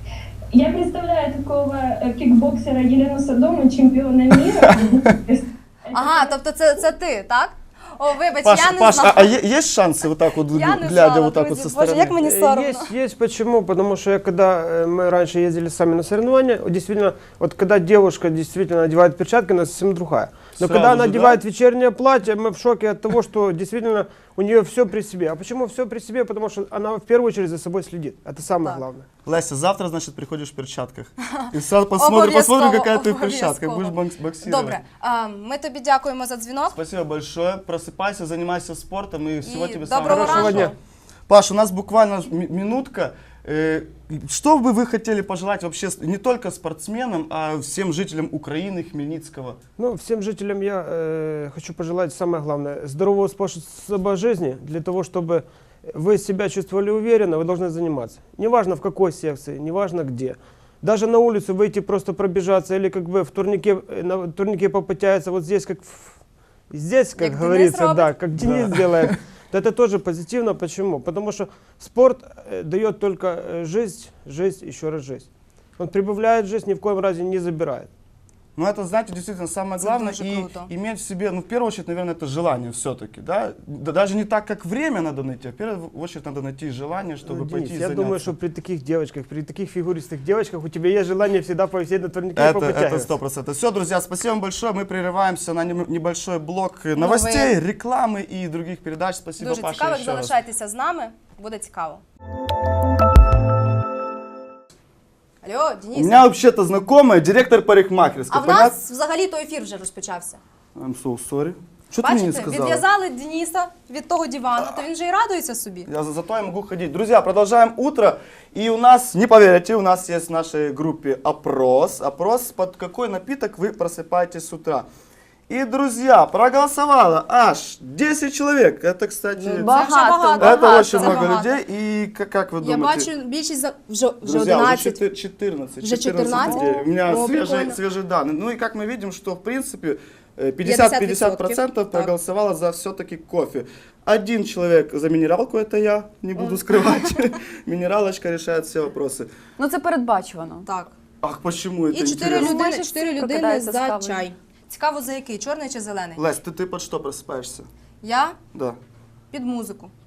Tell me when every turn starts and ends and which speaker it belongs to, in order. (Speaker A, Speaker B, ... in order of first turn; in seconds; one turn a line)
Speaker A: 0.5-6.4
Speaker B: 5.9-9.3
Speaker C: 8.4-12.2
Speaker B: 10.5-12.9
Speaker D: 12.2-29.1
Speaker C: 20.6-21.4
Speaker C: 29.2-34.8
Speaker B: 31.4-36.8
Speaker C: 36.7-40.7
Speaker B: 39.4-40.7
Speaker D: 40.0-40.7
Speaker C: 41.3-49.6
Speaker D: 49.8-66.2
Speaker D: 66.7-75.2
Speaker B: 67.2-68.2
Speaker C: 68.4-68.7
Speaker D: 75.8-77.9
Speaker C: 78.6-88.3
Speaker B: 79.8-80.7
Speaker D: 87.2-93.1
Speaker C: 92.3-100.3
Speaker B: 97.0-97.5
Speaker B: 99.4-102.0
Speaker B: 105.4-106.2
Speaker C: 105.9-108.7
Speaker B: 108.3-110.4
Speaker C: 110.8-112.8
Speaker B: 112.0-115.9
Speaker C: 115.9-124.9
Speaker C: 125.5-129.7
Speaker B: 129.4-131.6
Speaker E: 129.6-131.3
Speaker C: 130.4-133.1
Speaker B: 132.6-135.0
Speaker C: 134.2-149.3
Speaker B: 135.8-137.8
Speaker B: 140.6-142.1
Speaker E: 149.6-150.7
Speaker B: 150.7-150.9
Speaker C: 151.2-152.5
Speaker B: 151.9-156.2
Speaker E: 152.2-154.3
Speaker C: 156.2-157.7
Speaker B: 158.0-158.4
Speaker B: 159.3-159.9